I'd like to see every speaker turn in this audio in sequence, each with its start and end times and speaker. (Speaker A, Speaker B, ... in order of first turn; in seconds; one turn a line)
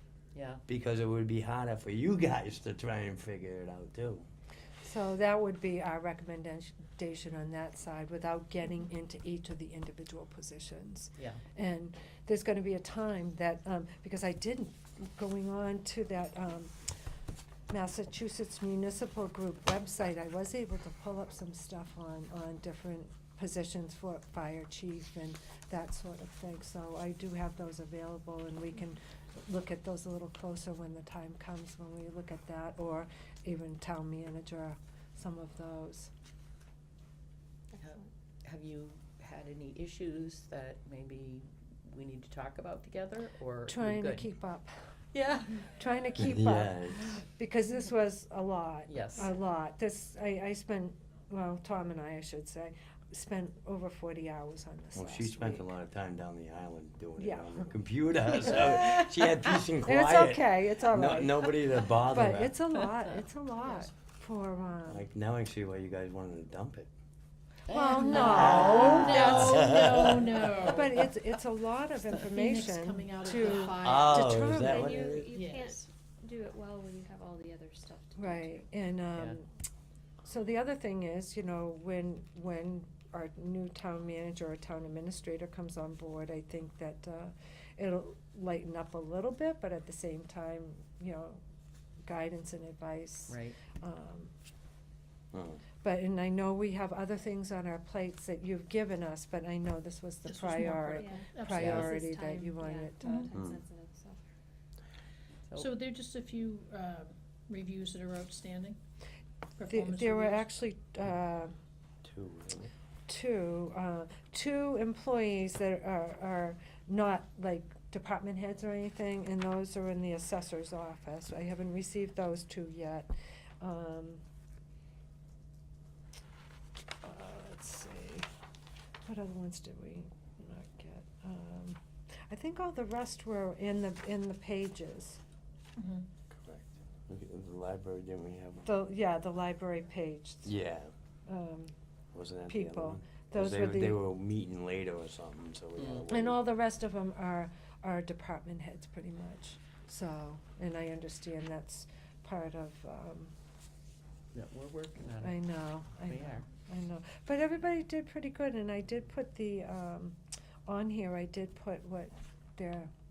Speaker A: 0.3-0.6
Speaker B: 0.7-4.2
Speaker C: 4.8-16.8
Speaker C: 17.7-36.1
Speaker D: 37.7-38.1
Speaker A: 37.8-44.3
Speaker C: 43.7-44.7
Speaker A: 45.1-45.6
Speaker C: 45.6-55.7
Speaker B: 46.2-47.2
Speaker A: 48.9-49.3
Speaker B: 55.0-62.6
Speaker C: 57.2-57.7
Speaker C: 58.4-65.0
Speaker B: 64.9-66.9
Speaker A: 67.7-69.4
Speaker C: 67.7-74.9
Speaker E: 67.8-70.9
Speaker B: 68.2-70.5
Speaker A: 70.0-70.9
Speaker E: 72.0-74.4
Speaker B: 73.7-75.3
Speaker D: 74.6-78.7
Speaker E: 75.3-75.8
Speaker C: 78.2-79.5
Speaker C: 80.2-91.4
Speaker C: 92.0-94.3
Speaker A: 93.3-93.6
Speaker B: 95.3-95.6
Speaker C: 95.8-103.3
Speaker E: 100.2-101.9
Speaker D: 100.9-104.2
Speaker A: 101.5-101.9
Speaker B: 103.3-103.6
Speaker A: 105.5-105.7
Speaker E: 105.5-108.8
Speaker E: 109.6-110.5
Speaker C: 109.7-111.5
Speaker B: 112.0-112.7
Speaker C: 113.1-124.2
Speaker C: 127.0-128.3
Speaker C: 129.1-131.8
Speaker C: 132.3-135.2
Speaker E: 135.8-136.1
Speaker B: 136.3-138.7
Speaker C: 138.6-140.5
Speaker B: 140.4-140.9
Speaker C: 141.3-141.7
Speaker B: 142.1-146.4
Speaker C: 142.5-144.0
Speaker A: 145.8-146.0
Speaker C: 146.1-153.3
Speaker A: 154.3-156.4
Speaker C: 155.2-162.9